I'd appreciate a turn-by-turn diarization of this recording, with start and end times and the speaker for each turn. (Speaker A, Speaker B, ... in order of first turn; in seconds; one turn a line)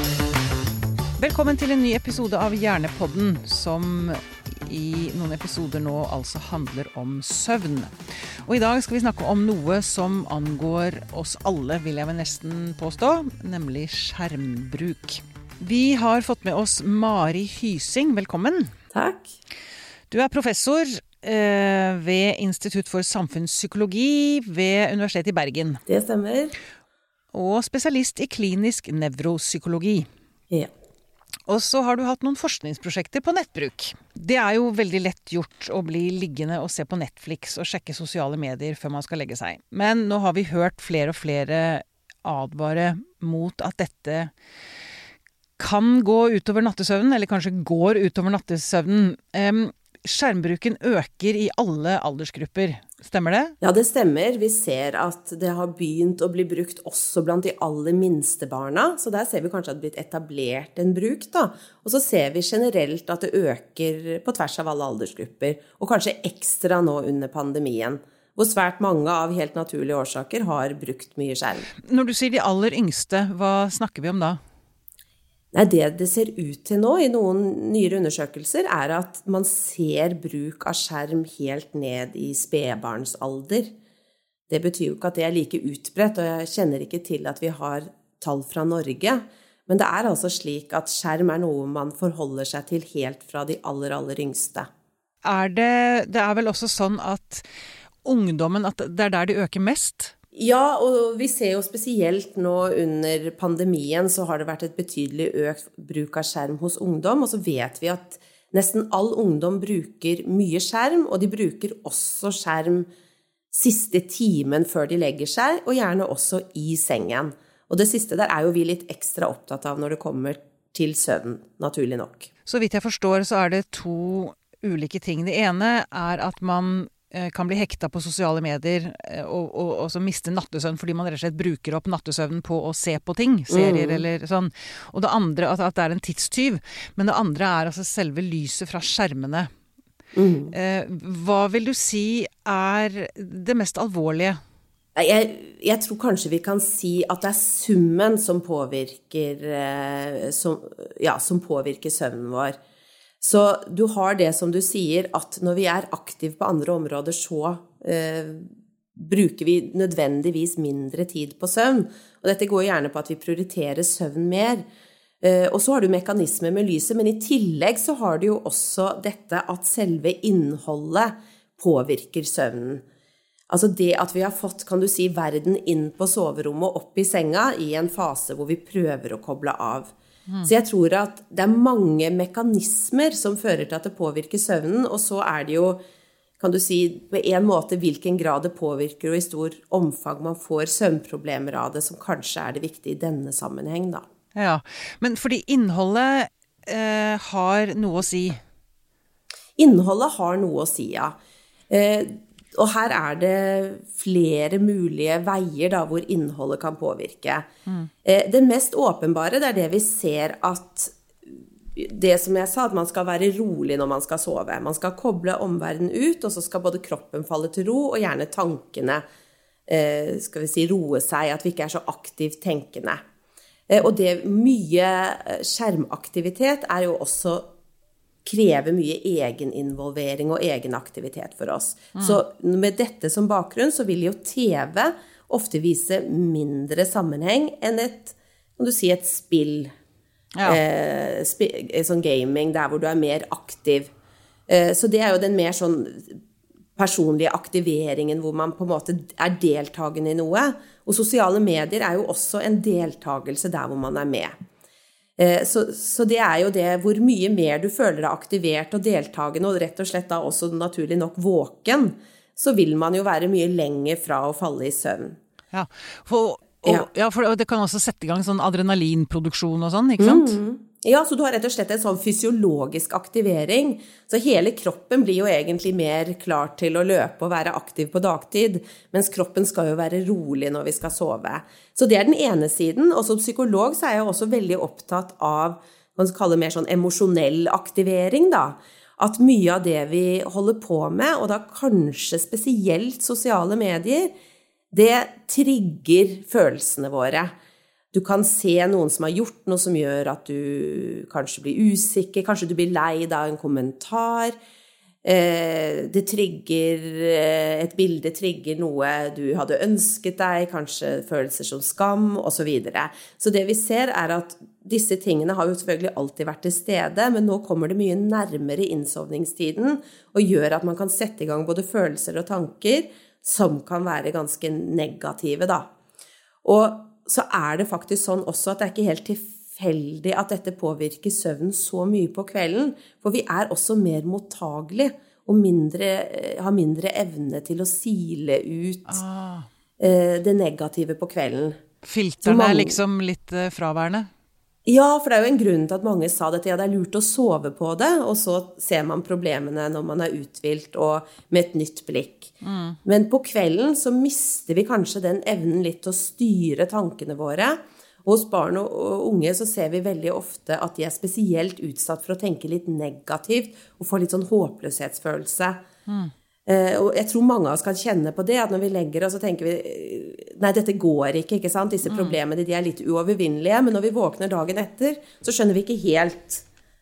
Speaker A: 1.2-18.7
Speaker B: 18.9-19.4
Speaker A: 20.1-25.8
Speaker B: 25.9-26.6
Speaker A: 27.3-30.1
Speaker A: 31.4-44.3
Speaker A: 45.6-53.5
Speaker B: 53.6-71.7
Speaker A: 71.8-74.4
Speaker B: 75.5-83.7
Speaker B: 84.5-94.7
Speaker A: 95.2-97.5
Speaker A: 98.0-100.1
Speaker B: 100.3-112.9
Speaker B: 113.5-122.3
Speaker A: 122.5-139.5
Speaker B: 133.5-134.1
Speaker B: 140.1-140.5
Speaker A: 140.5-144.4
Speaker B: 144.9-152.6
Speaker B: 153.2-164.6
Speaker B: 165.2-172.8
Speaker B: 173.5-179.9
Speaker B: 180.4-185.8
Speaker B: 186.4-194.0
Speaker A: 194.3-198.4
Speaker B: 199.6-201.2
Speaker B: 201.7-207.5
Speaker B: 208.0-219.0
Speaker B: 219.7-223.0
Speaker B: 223.7-227.5
Speaker B: 228.2-239.7
Speaker A: 240.3-240.6
Speaker B: 240.4-243.9
Speaker B: 244.5-246.2
Speaker B: 246.8-254.3
Speaker B: 255.2-265.2
Speaker A: 265.5-270.4
Speaker B: 270.0-294.1
Speaker B: 294.7-297.3
Speaker B: 297.9-304.4
Speaker B: 305.0-325.7
Speaker B: 326.4-339.0
Speaker A: 338.9-339.5
Speaker B: 339.8-341.6
Speaker A: 341.8-344.1
Speaker B: 342.2-342.8
Speaker B: 344.6-352.3
Speaker A: 352.4-352.8
Speaker B: 352.8-365.6
Speaker A: 365.9-366.1
Speaker B: 366.4-376.4
Speaker A: 371.9-372.1